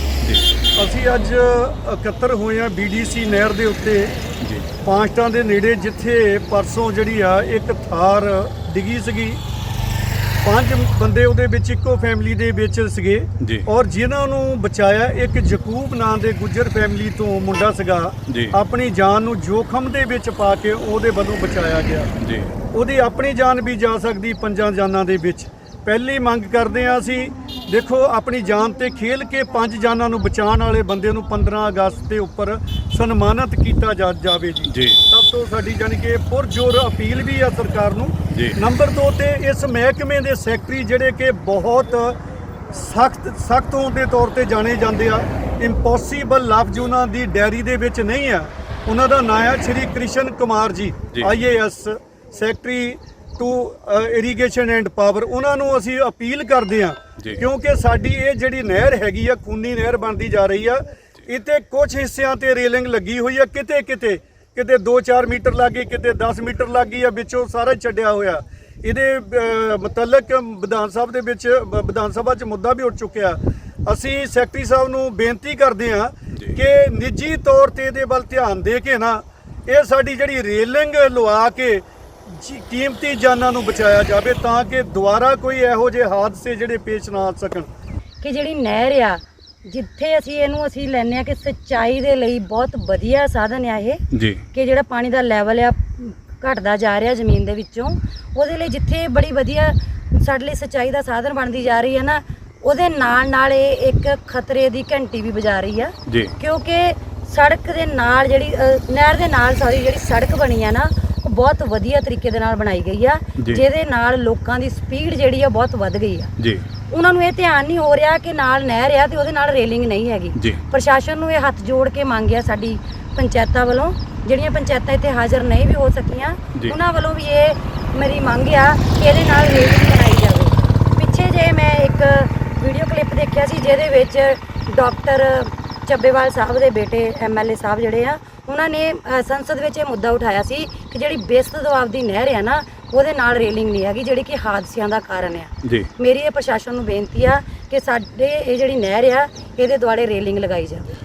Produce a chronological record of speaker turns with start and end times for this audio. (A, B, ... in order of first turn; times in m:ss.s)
0:00.8-0:04.2 A
0:04.8-0:09.4 A
0:10.4-0:22.1 A
0:13.4-0:13.7 B
0:18.3-0:18.5 B
0:22.2-0:22.5 B
0:22.7-0:42.2 A
0:34.7-0:35.0 B
0:38.3-0:38.6 B
0:42.7-1:27.7 A
1:28.2-1:34.0 C
1:34.1-1:34.4 B
1:34.5-1:56.3 C
1:56.9-2:30.9 C
2:00.4-2:00.6 B
2:25.6-2:25.9 B